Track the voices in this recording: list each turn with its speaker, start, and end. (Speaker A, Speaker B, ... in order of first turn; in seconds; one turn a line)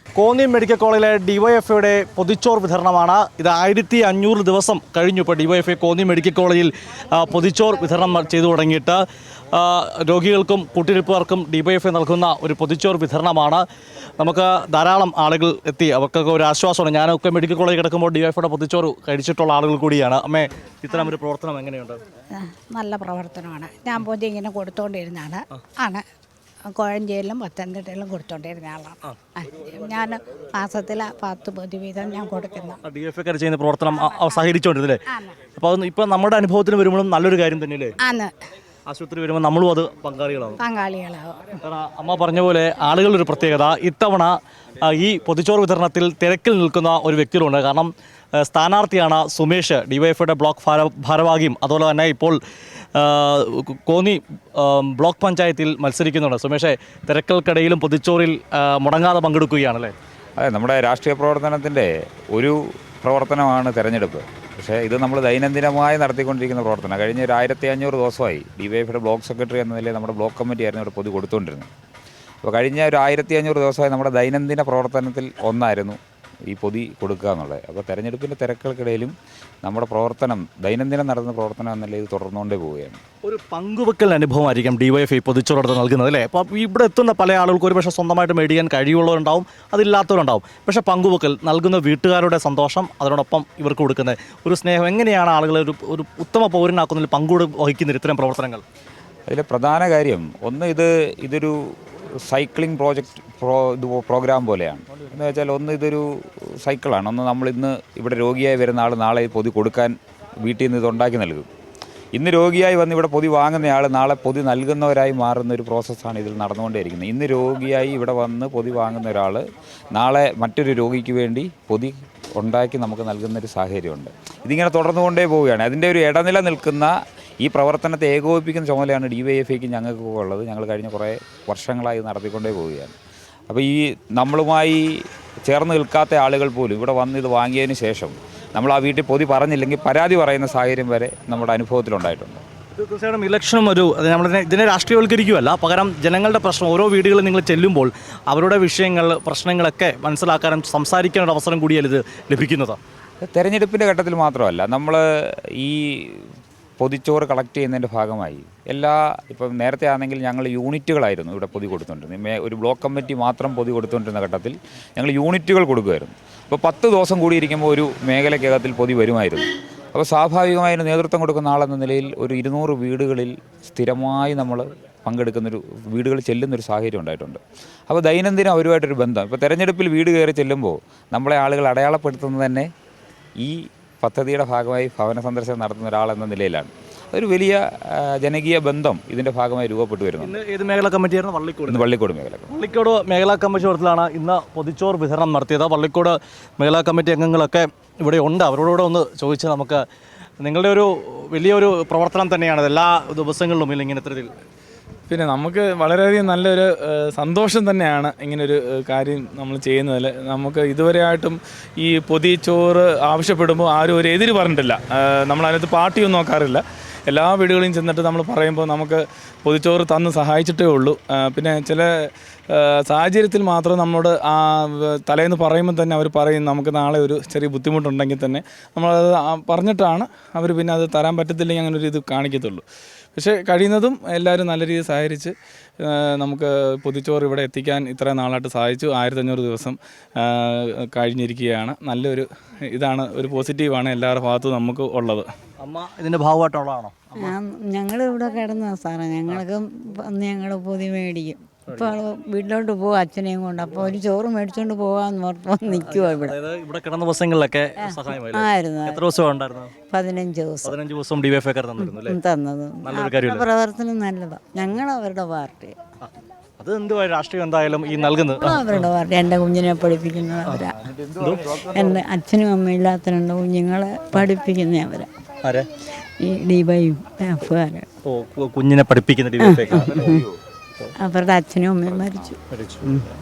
Speaker A: 0.2-13.7
Speaker A: 14.2-22.0
Speaker B: 22.3-26.1
Speaker B: 26.7-32.8
Speaker A: 32.9-35.0
Speaker B: 33.9-34.4
Speaker A: 35.5-38.0
Speaker B: 38.0-38.4
Speaker A: 38.9-40.6
Speaker B: 40.6-41.6
Speaker A: 41.6-52.4
Speaker A: 53.0-59.9
Speaker C: 60.4-71.7
Speaker C: 72.4-76.0
Speaker C: 76.5-79.1
Speaker C: 79.6-83.0
Speaker A: 83.2-98.6
Speaker C: 99.3-111.5
Speaker C: 112.2-132.9
Speaker C: 133.5-142.4
Speaker A: 142.8-152.8
Speaker C: 153.2-156.3
Speaker C: 156.8-182.7
Speaker C: 183.4-190.4
Speaker A: 190.2-191.9
Speaker C: 191.7-192.6
Speaker A: 192.5-199.8
Speaker A: 200.4-204.3
Speaker D: 205.1-232.6
Speaker D: 233.2-245.3
Speaker A: 245.6-247.3
Speaker E: 247.2-256.4
Speaker A: 251.7-252.0
Speaker A: 255.7-259.7
Speaker E: 258.3-259.0
Speaker E: 259.9-260.8
Speaker A: 260.6-262.2
Speaker E: 261.8-265.8
Speaker A: 262.8-263.5
Speaker A: 266.0-268.9
Speaker E: 268.4-270.8
Speaker C: 270.8-272.0
Speaker A: 271.2-271.6
Speaker E: 271.6-275.1
Speaker E: 276.2-277.9
Speaker A: 278.1-280.2
Speaker E: 279.4-280.2
Speaker C: 279.7-280.4
Speaker E: 281.0-283.1
Speaker C: 281.9-282.3
Speaker A: 282.5-283.0